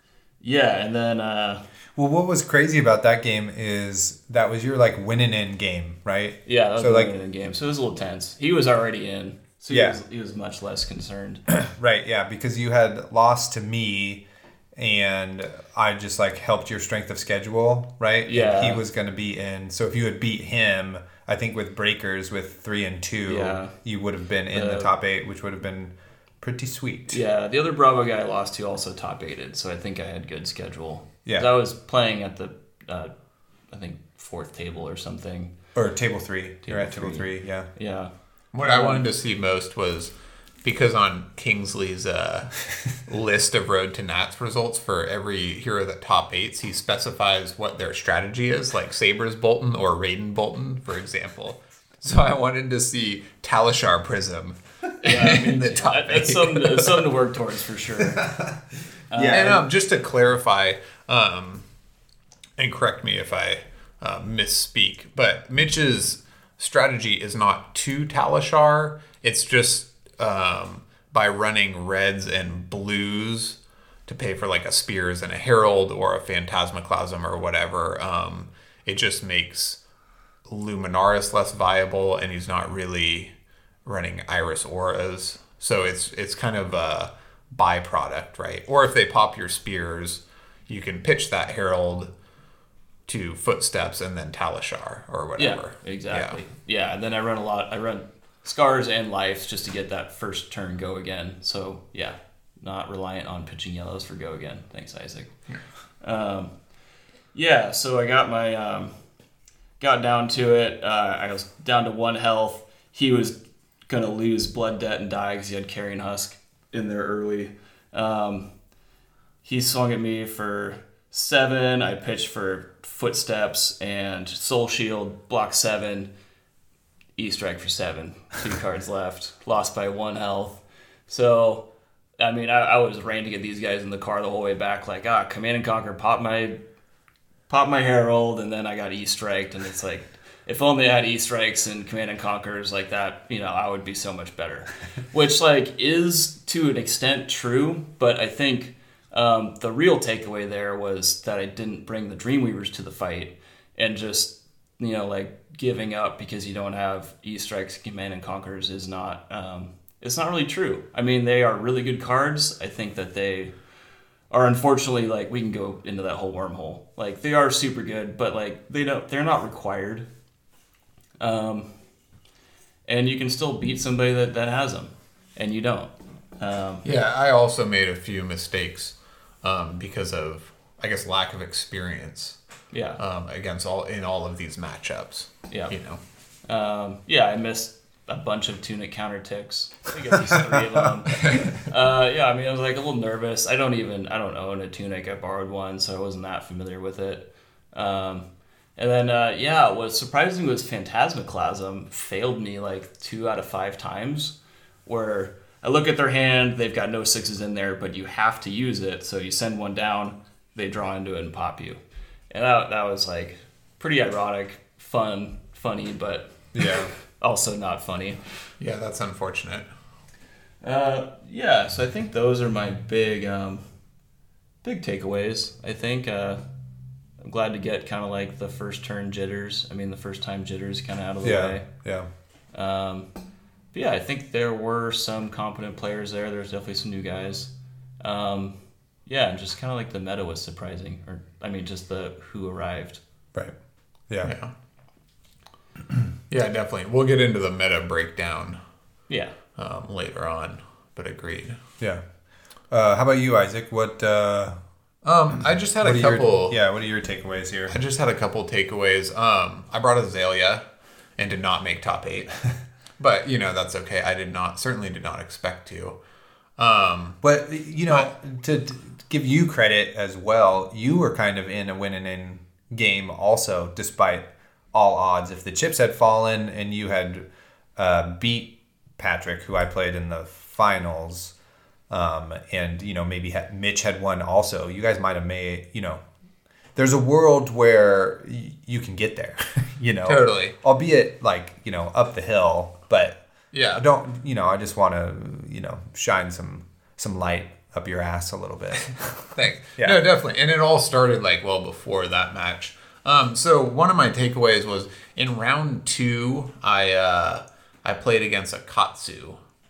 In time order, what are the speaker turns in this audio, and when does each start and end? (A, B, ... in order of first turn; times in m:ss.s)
0:00.4-0:01.6 A
0:02.0-0:07.1 B
0:06.4-0:11.5 A
0:09.7-0:10.0 B
0:11.6-0:14.2 B
0:14.8-0:27.2 B
0:18.2-0:18.8 A
0:23.3-0:23.8 A
0:24.5-0:24.9 A
0:27.1-0:33.1 A
0:33.7-0:35.5 A
0:35.7-0:37.7 B
0:36.6-0:39.0 A
0:38.5-0:57.0 C
0:55.0-0:58.4 A
0:58.1-0:58.6 B
0:59.1-0:59.6 A
0:59.1-0:59.6 B
0:59.3-1:01.7 C
1:02.6-1:19.8 C
1:20.4-1:23.3 C
1:23.8-1:32.1 C
1:33.1-1:36.4 C
1:35.4-1:45.3 A
1:46.0-1:46.5 A
1:47.3-1:48.9 A
1:49.8-1:58.5 A
1:59.4-2:06.1 A
2:07.2-2:11.7 A
2:12.2-2:16.6 A
2:17.5-2:43.5 A
2:44.3-2:50.1 A
2:51.2-2:51.8 A
2:52.9-2:56.8 A
2:56.8-3:02.4 C
3:02.7-3:03.0 A
3:03.0-3:06.0 C
3:06.4-3:31.8 A
3:32.3-3:38.2 A
3:36.5-3:36.9 B
3:38.6-3:39.7 C
3:40.6-3:43.6 A
3:44.6-3:46.4 A
3:47.2-3:51.6 A
3:51.2-3:52.1 B
3:52.5-3:53.1 A
3:53.7-4:03.0 A
4:04.2-4:04.5 C
4:06.3-4:08.6 C
4:09.1-4:09.3 A
4:09.6-4:11.6 C
4:12.7-4:14.6 B
4:15.0-4:16.6 C
4:15.8-4:17.8 B
4:17.7-4:20.6 C
4:21.2-4:26.0 C
4:26.6-4:27.2 C
4:27.2-4:41.3 B
4:41.9-4:46.0 B
4:46.8-5:00.0 B
4:50.0-4:50.6 C
4:53.5-4:53.8 C
4:59.3-5:09.4 C